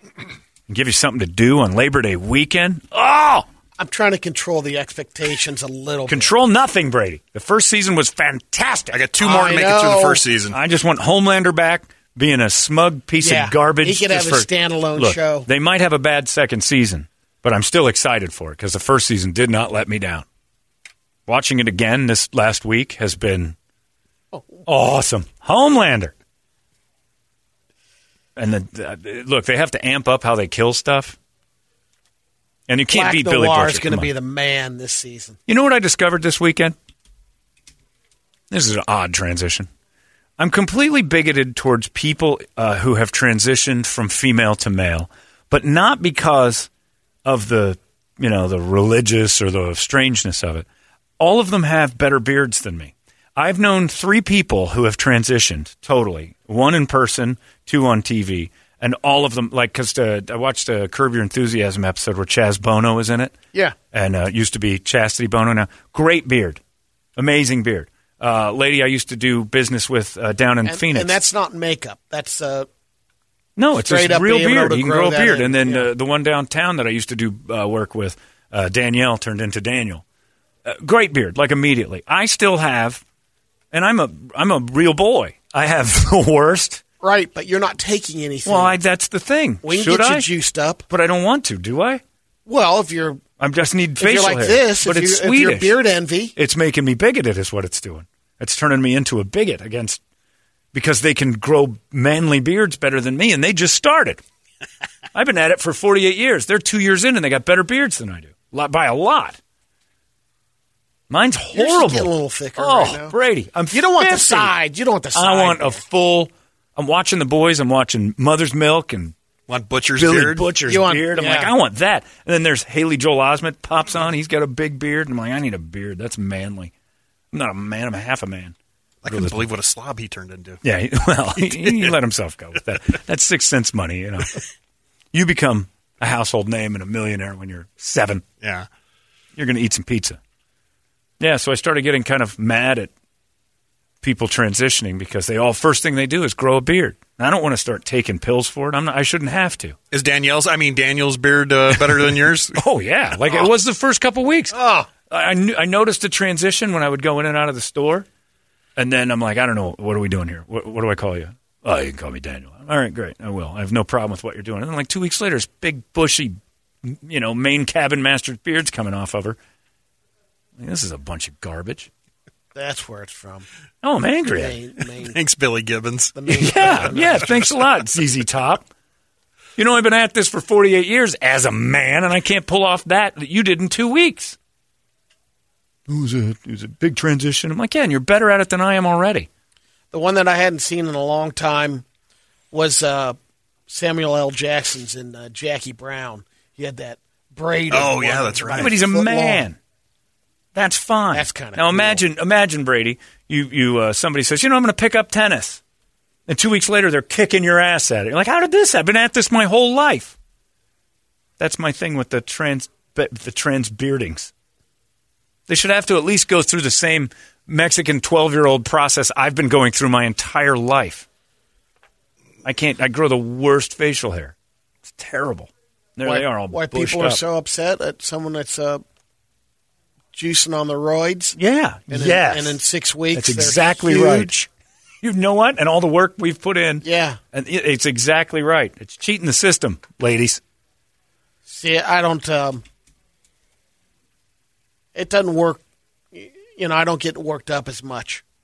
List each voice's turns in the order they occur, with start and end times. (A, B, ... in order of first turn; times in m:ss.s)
0:00.7-0:03.5 A
0:03.8-0:06.3 B
0:06.1-0:09.0 A
0:08.9-0:10.6 C
0:09.2-0:10.2 B
0:10.5-0:20.3 A
0:13.2-0:15.5 B
0:21.3-0:23.6 A
0:24.3-0:24.7 B
0:24.7-0:26.1 A
0:28.4-0:31.2 A
0:32.7-0:34.1 A
0:32.9-0:35.4 B
0:35.5-0:36.8 A
0:38.5-0:39.7 A
0:40.4-0:46.7 A
0:47.2-0:50.7 A
0:51.2-1:03.3 A
1:03.9-1:06.6 A
1:07.2-1:11.2 A
1:10.6-1:12.7 B
1:13.6-1:20.0 A
1:13.8-1:15.9 B
1:20.6-1:23.0 A
1:23.7-1:26.8 A
1:27.0-1:28.8 B
1:28.4-1:30.3 A
1:29.6-1:30.9 B
1:30.9-1:32.0 A
1:32.5-1:33.2 B
1:33.4-1:35.8 A
1:34.0-1:36.3 B
1:36.4-1:40.0 A
1:40.7-1:44.2 A
1:45.1-1:49.4 A
1:51.1-1:54.6 A
1:51.5-1:53.2 B
1:53.7-1:55.8 B
1:55.1-1:59.2 A
1:59.5-2:00.4 C
2:00.0-2:06.7 A
2:00.7-2:01.5 B
2:07.3-2:08.6 A
2:09.0-2:10.6 C
2:09.1-2:09.5 A
2:10.6-2:14.4 A
2:11.3-2:11.9 C
2:15.1-2:18.2 A
2:18.4-2:18.7 C
2:19.4-2:20.2 A
2:21.2-2:22.9 A
2:24.0-2:29.8 A
2:29.9-2:32.6 C
2:32.5-2:34.6 A
2:34.5-2:34.9 B
2:35.1-2:38.1 A
2:38.8-2:49.4 A
2:50.6-2:51.9 A
2:52.5-2:53.5 B
2:53.8-2:54.6 A
2:54.3-2:55.2 B
2:55.0-2:56.7 C
2:56.2-2:57.4 B
2:56.3-2:58.7 A
2:59.6-3:04.4 A
3:05.9-3:09.3 A
3:09.9-3:11.8 B
3:12.5-3:19.5 B
3:17.7-3:18.8 C
3:18.6-3:19.6 A
3:20.6-3:25.6 A
3:21.1-3:22.0 B
3:26.3-3:30.2 A
3:31.4-3:34.3 A
3:35.5-3:41.1 A
3:42.4-3:47.2 A
3:46.0-3:48.8 B
3:50.1-3:51.4 B
3:51.4-3:52.6 A
3:51.9-3:54.5 B
3:53.1-3:54.4 A
3:55.0-4:00.4 A
3:56.8-3:57.2 B
4:01.5-4:02.6 B
4:04.9-4:08.2 B